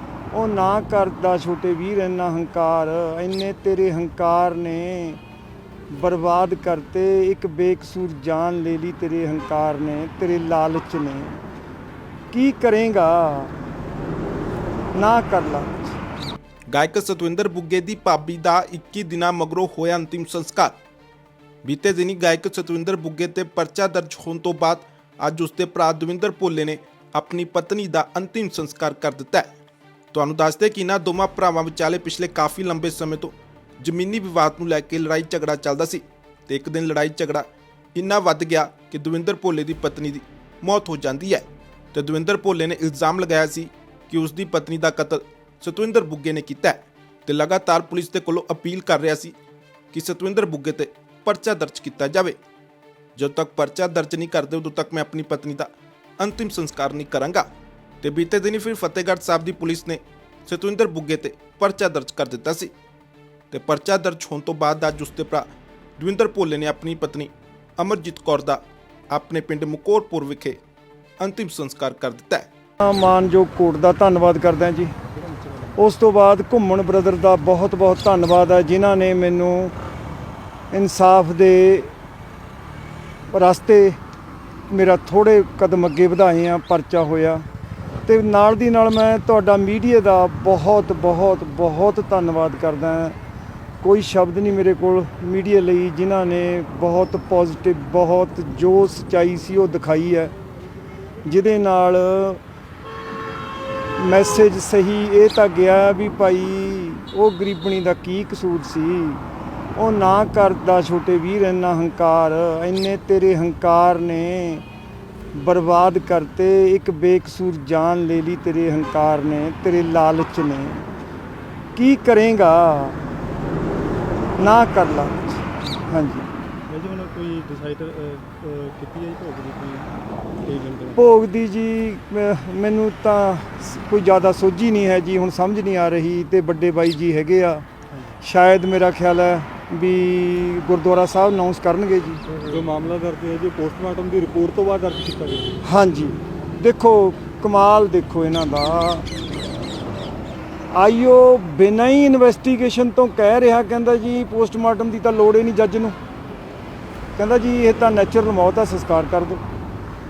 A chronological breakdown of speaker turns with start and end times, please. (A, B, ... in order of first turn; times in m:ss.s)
0:00.3-0:05.2 A
0:05.9-0:11.4 A
0:12.3-0:13.6 A
0:14.9-0:16.0 A
0:16.7-0:20.7 B
0:21.6-0:29.5 B
0:30.1-0:37.4 B
0:37.9-0:49.3 B
0:49.9-0:52.4 B
0:53.2-0:57.4 B
0:58.0-1:02.7 B
1:03.5-1:05.4 B
1:06.0-1:10.6 B
1:11.2-1:12.5 B
1:12.8-1:14.9 A
1:15.7-1:19.7 A
1:20.7-1:21.9 A
1:23.3-1:24.0 A
1:24.7-1:27.4 A
1:28.0-1:33.2 A
1:33.8-1:40.3 A
1:41.2-1:42.4 A
1:44.0-1:49.2 A
1:49.8-1:54.6 A
1:55.3-2:00.8 A
2:01.8-2:03.0 A
2:04.4-2:06.3 A
2:06.7-2:09.9 C
2:10.4-2:11.0 C
2:11.0-2:17.6 A
2:18.2-2:22.2 A
2:22.3-2:25.6 C
2:25.6-2:29.1 A
2:30.7-2:36.0 A
2:37.2-2:39.4 A